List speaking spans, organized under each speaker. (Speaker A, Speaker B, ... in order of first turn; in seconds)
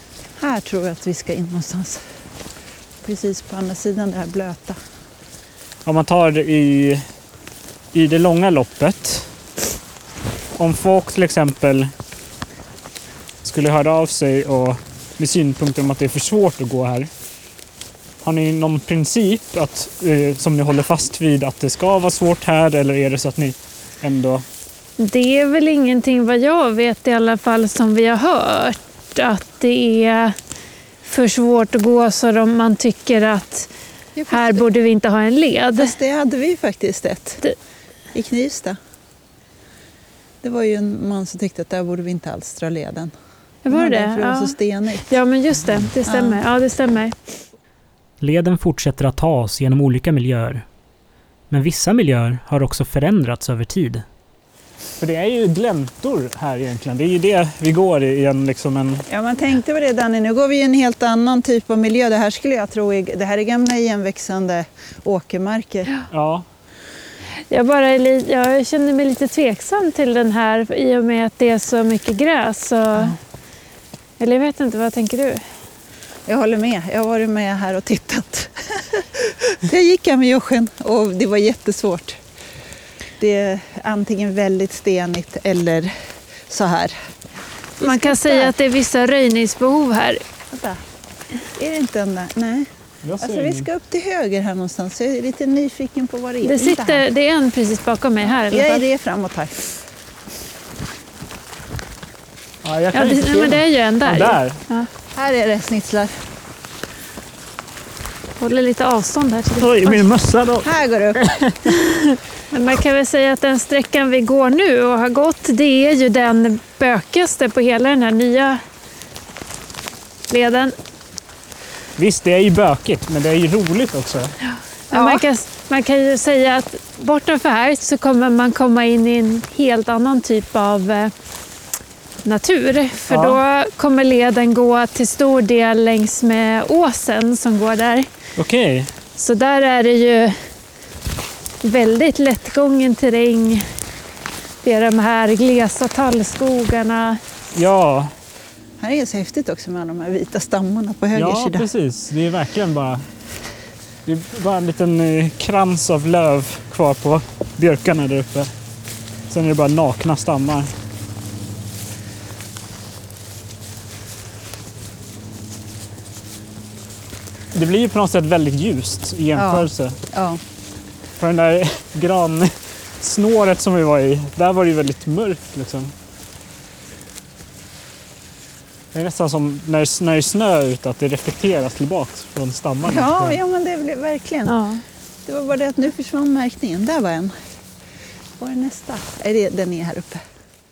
Speaker A: 0.4-2.1, 3.0-4.8, 34.1-34.7, 35.7-37.4, 38.1-38.8, 40.4-43.1, 43.7-45.1, 46.0-46.4, 59.1-66.0, 76.3-82.2, 83.2-85.9, 86.5-87.0, 87.8-88.5, 90.5-90.8, 91.5-97.0, 98.2-99.7, 105.1-106.1, 110.6-111.3, 124.9-125.2, 148.8-151.7, 169.3-170.4, 182.8-184.6, 185.2-187.3, 188.4-190.2
Speaker B: 5.8-7.1, 7.9-9.3, 10.6-11.9, 13.4-17.1, 18.2-24.4, 55.0-59.0, 66.1-66.5, 93.0-93.7, 102.6-104.6, 109.6-111.8, 122.0-124.3, 133.1-133.4, 138.3-138.9, 147.5-148.1, 151.1-153.1, 154.1-158.5, 159.3-160.7, 167.5-169.9, 171.2-175.9, 178.9-183.4
Speaker C: 25.0-30.4, 31.0-33.7, 34.3-35.9, 43.6-47.1, 67.5-73.2, 74.2-75.5, 87.8-90.2, 96.4-98.8, 102.9-104.9, 108.4-110.0, 112.5-118.6, 120.3-120.7, 124.5-131.1, 132.2-138.1, 139.2-140.5, 141.6-143.7, 144.6-147.2, 184.4-184.8
Speaker D: 48.2-50.6, 51.5-54.0